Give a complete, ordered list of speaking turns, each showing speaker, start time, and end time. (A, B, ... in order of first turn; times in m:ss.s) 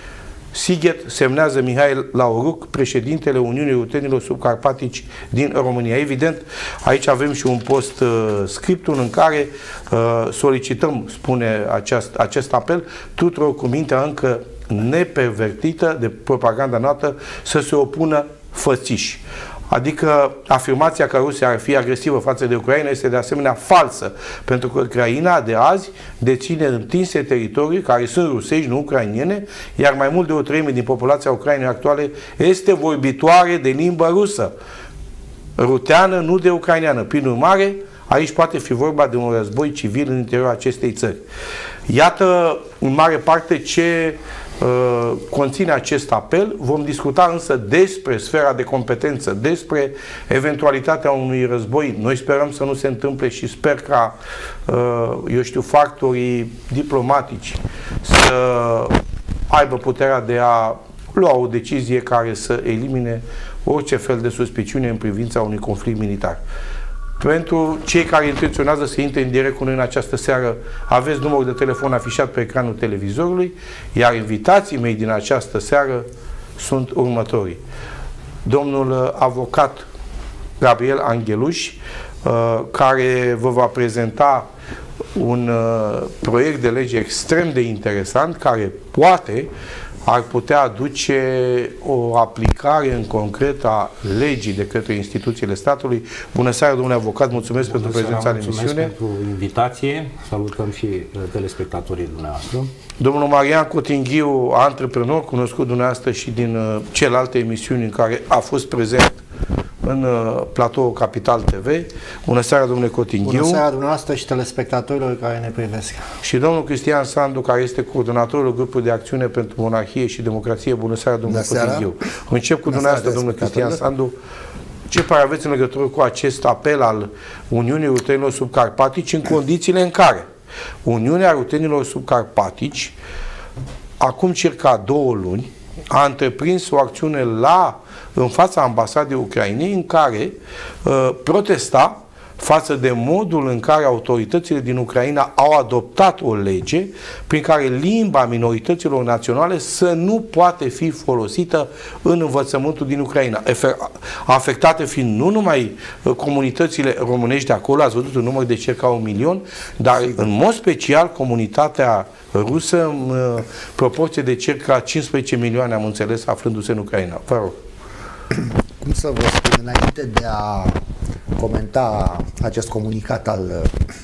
0:00.5-0:34.5 A
0:35.6-0:41.2 A
0:41.9-0:54.1 A
0:54.7-0:58.9 A
0:59.5-1:06.4 A
1:07.2-1:16.0 A
1:16.6-1:17.6 A
1:18.4-1:19.9 A
1:20.6-1:24.4 A
1:25.2-1:29.5 A
1:30.0-1:38.9 A
1:37.6-1:42.7 B
1:43.0-1:49.2 A
1:49.8-1:53.6 A
1:53.2-1:56.0 C
1:56.2-2:04.1 A
2:01.2-2:01.9 D
2:02.7-2:03.8 D
2:04.9-2:10.2 A
2:10.8-2:12.9 A
2:14.0-2:47.6 A
2:48.3-2:50.8 D
2:51.4-2:53.8 D